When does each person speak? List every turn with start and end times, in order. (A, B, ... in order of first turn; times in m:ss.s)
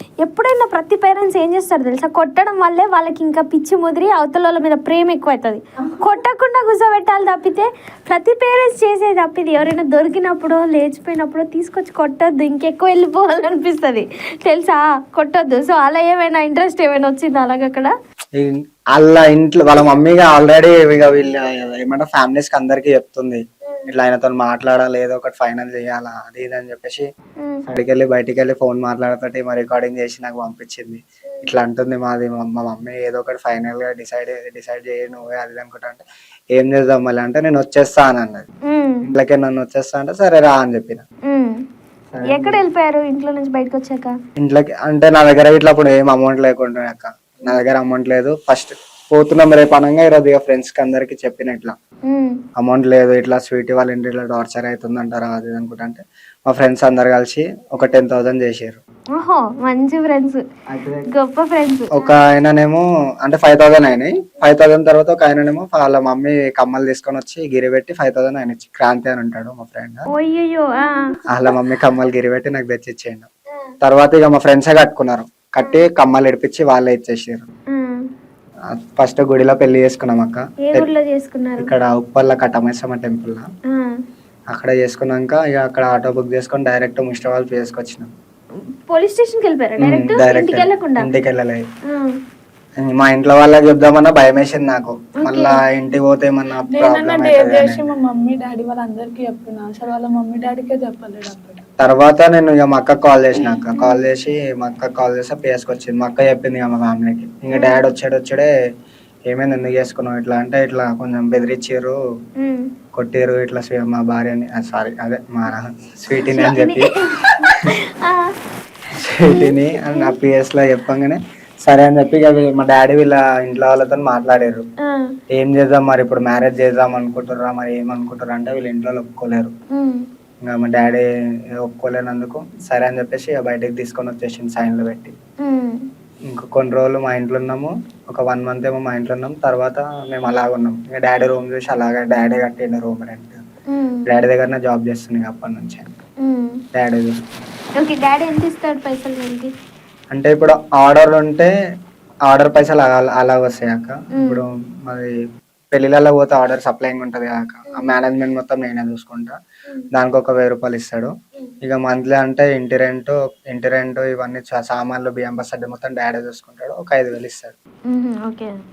0:00.2-0:17.9 A
0:18.4-0:27.0 B
0:27.7-0:38.5 B
0:38.7-0:39.0 A
0:39.0-0:41.0 B
0:41.3-0:41.6 A
0:42.1-0:42.6 B
0:42.3-0:44.1 A
0:44.4-0:51.8 B
0:52.1-0:52.4 A
0:52.6-0:58.8 B
0:59.2-1:00.4 A
1:00.7-1:01.1 B
1:01.1-1:02.1 A
1:02.0-1:10.1 B
1:10.1-1:11.1 A
1:11.3-1:13.3 B
1:13.8-1:17.4 B
1:17.7-1:18.0 A
1:18.7-1:20.9 B
1:20.6-1:21.7 A
1:21.6-1:23.4 B
1:24.5-1:28.1 B
1:28.9-1:31.1 A
1:29.8-1:31.6 B
1:32.8-1:37.8 B
1:35.2-1:35.6 A
1:36.8-1:41.6 C
1:41.8-1:48.5 B
1:43.8-1:44.0 A
1:47.5-1:47.8 A
1:49.3-1:52.0 B
1:52.4-1:52.7 A
1:53.0-1:57.3 B
1:56.2-1:56.9 A
1:57.4-1:58.3 A
1:59.0-2:04.6 B
1:59.3-2:00.2 A
2:04.9-2:05.1 A
2:05.3-2:09.5 B
2:09.7-2:10.0 A
2:10.4-2:11.1 B
2:11.6-2:15.2 B
2:15.4-2:15.8 A
2:16.3-2:23.4 B
2:23.7-2:24.0 A
2:24.1-2:25.9 B
2:26.2-2:26.6 A
2:26.8-2:27.4 B
2:27.8-2:29.5 A
2:30.1-2:31.5 B
2:32.3-2:35.1 B
2:34.2-2:34.4 A
2:35.7-2:39.4 B
2:40.0-2:41.1 B
2:41.6-2:47.6 B
2:47.9-2:48.5 A